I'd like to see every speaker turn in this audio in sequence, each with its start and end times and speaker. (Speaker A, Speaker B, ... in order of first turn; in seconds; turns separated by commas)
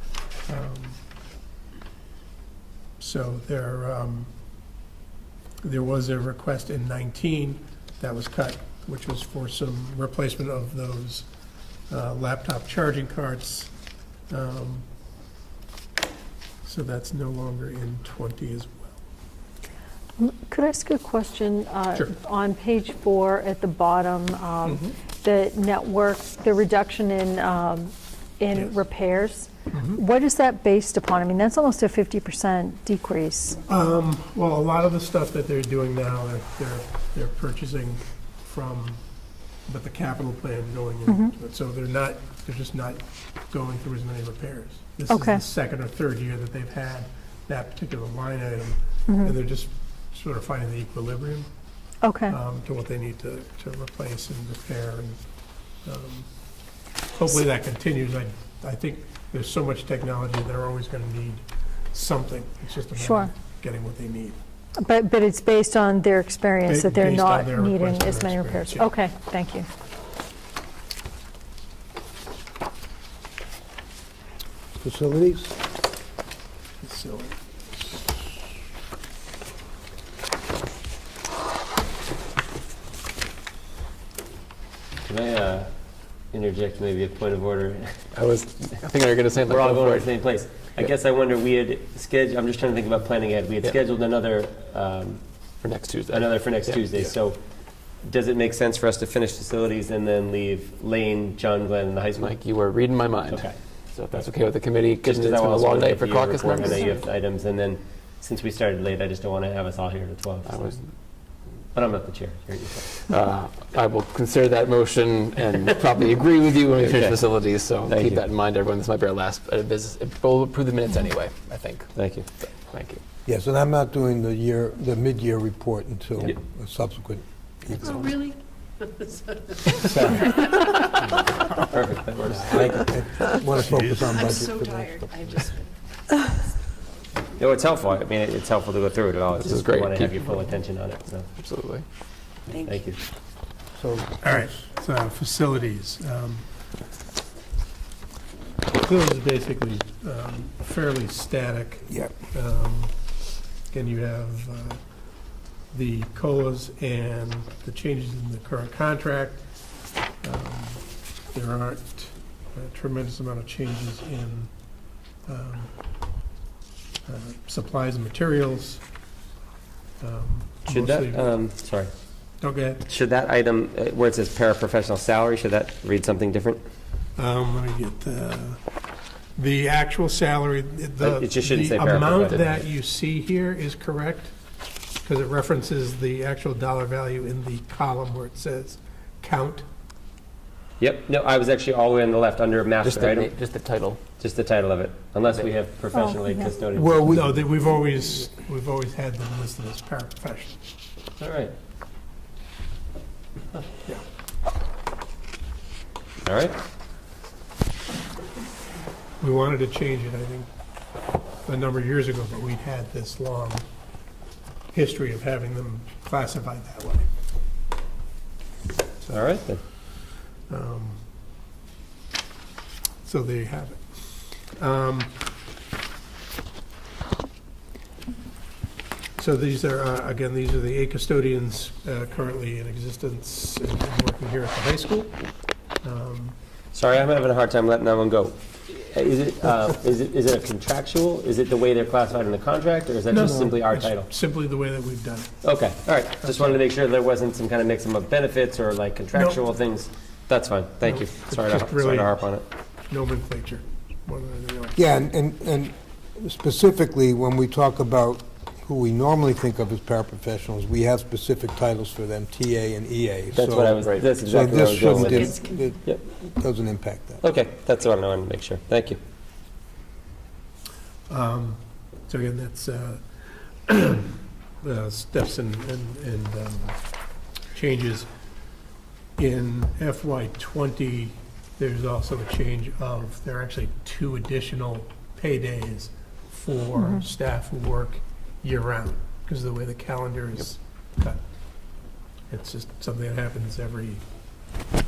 Speaker A: 0.5-1.0, Speaker A: 3.0-4.3, Speaker A: 5.6-11.2, Speaker A: 11.9-13.7, Speaker A: 14.3-14.8, Speaker A: 16.6-19.0, Speaker B: 20.2-33.6, Speaker A: 24.6-24.9, Speaker A: 29.7-30.0, Speaker A: 33.7-39.0, Speaker A: 39.7-51.5, Speaker B: 45.1-45.4, Speaker B: 49.1-49.3, Speaker B: 52.0-52.4, Speaker A: 52.3-55.2, Speaker A: 55.8-56.3, Speaker A: 57.1-64.4, Speaker B: 62.9-63.3, Speaker B: 64.8-69.7, Speaker A: 66.7-68.9, Speaker C: 74.8-75.5, Speaker A: 76.8-77.4, Speaker D: 85.0-85.7, Speaker D: 86.3-88.0, Speaker E: 88.1-90.1, Speaker D: 89.5-95.2, Speaker E: 95.6-97.1, Speaker D: 96.1-97.4, Speaker D: 98.0-102.4, Speaker E: 102.2-107.0, Speaker D: 103.3-103.6, Speaker D: 105.0-110.6, Speaker E: 110.4-110.9, Speaker D: 111.7-113.0, Speaker E: 113.0-121.9, Speaker D: 116.8-117.2, Speaker D: 117.9-118.2, Speaker D: 121.9-122.3, Speaker E: 122.7-123.0, Speaker C: 123.2-128.1, Speaker F: 127.8-131.0, Speaker D: 129.8-130.5, Speaker D: 131.6-133.0, Speaker C: 132.3-135.1, Speaker F: 133.4-136.7, Speaker A: 133.7-134.1, Speaker D: 137.4-141.3, Speaker E: 139.3-140.5, Speaker E: 141.4-141.8, Speaker F: 142.5-142.8, Speaker D: 142.6-143.0, Speaker C: 143.8-144.5, Speaker A: 144.2-146.4, Speaker A: 148.8-152.9, Speaker A: 153.7-154.8, Speaker A: 155.7-159.4, Speaker A: 160.2-164.5, Speaker A: 165.3-165.7, Speaker A: 167.1-168.8, Speaker A: 170.0-171.4, Speaker D: 170.7-171.9, Speaker A: 172.4-172.9, Speaker D: 172.9-176.6, Speaker A: 177.2-178.6, Speaker A: 179.3-184.3, Speaker D: 181.0-182.6, Speaker A: 185.0-189.7, Speaker D: 190.8-193.3, Speaker E: 192.8-194.0, Speaker D: 194.2-197.1, Speaker B: 195.9-196.5, Speaker C: 196.7-197.3, Speaker A: 197.1-200.6, Speaker D: 201.2-201.5, Speaker D: 206.2-206.6, Speaker A: 209.2-210.5, Speaker A: 211.4-213.6, Speaker A: 214.7-217.1, Speaker D: 219.1-219.6, Speaker A: 220.5-221.0, Speaker A: 223.0-225.1, Speaker A: 229.2-235.1, Speaker A: 235.8-236.3, Speaker D: 236.7-244.1, Speaker A: 243.1-245.3, Speaker D: 245.4-252.4, Speaker A: 246.2-246.6, Speaker A: 249.1-249.4, Speaker A: 250.8-252.2, Speaker A: 252.9-254.8, Speaker C: 254.8-267.2, Speaker D: 263.3-265.3, Speaker F: 265.0-265.4, Speaker D: 267.2-269.0, Speaker A: 271.1-273.0, Speaker A: 273.7-276.8, Speaker A: 277.5-278.1, Speaker A: 279.2-291.2, Speaker A: 292.3-294.0